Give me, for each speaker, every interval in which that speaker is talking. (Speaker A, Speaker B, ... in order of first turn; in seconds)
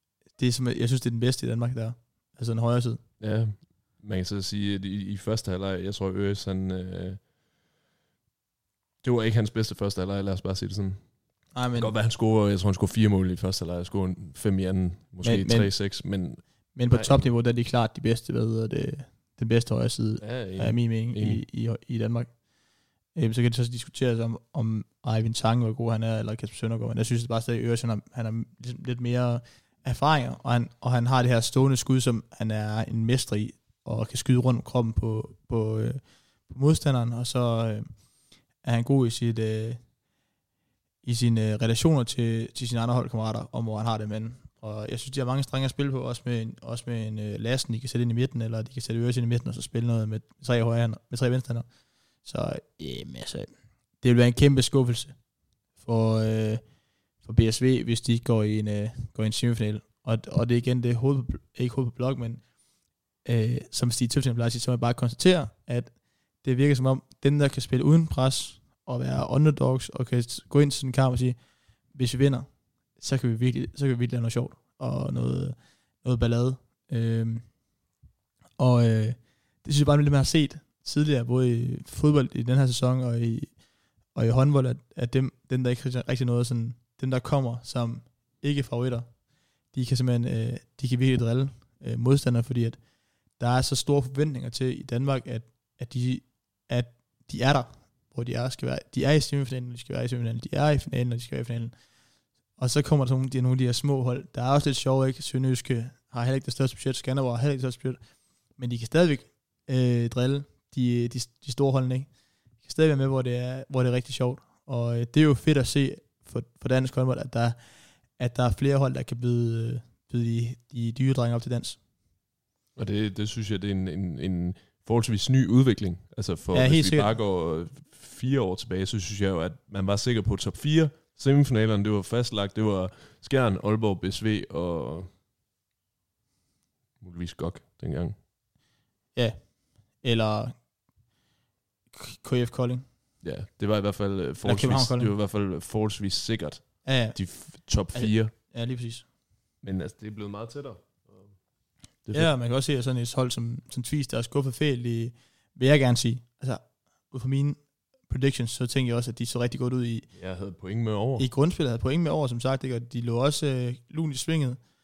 Speaker A: 0.4-3.0, 11.5-11.9, 15.2-15.7, 16.8-22.3, 23.1-37.9, 38.6-39.8, 41.0-51.7, 52.2-53.5, 54.0-55.1, 55.8-56.6, 57.2-62.4, 63.2-71.4, 71.9-77.5, 78.6-83.5, 84.1-89.1, 89.7-92.8, 93.4-101.7, 102.6-108.0, 108.6-112.1, 112.6-117.6, 118.2-121.8, 126.5-127.1, 140.0-140.5, 141.9-142.8, 144.4-145.1, 146.8-149.1, 152.1-160.1, 161.2-164.6
Speaker B: 3.2-7.2, 9.0-11.0, 11.8-17.2, 20.2-21.4, 122.8-135.1, 137.0-138.2, 143.2-148.3, 149.6-151.3, 160.2-161.3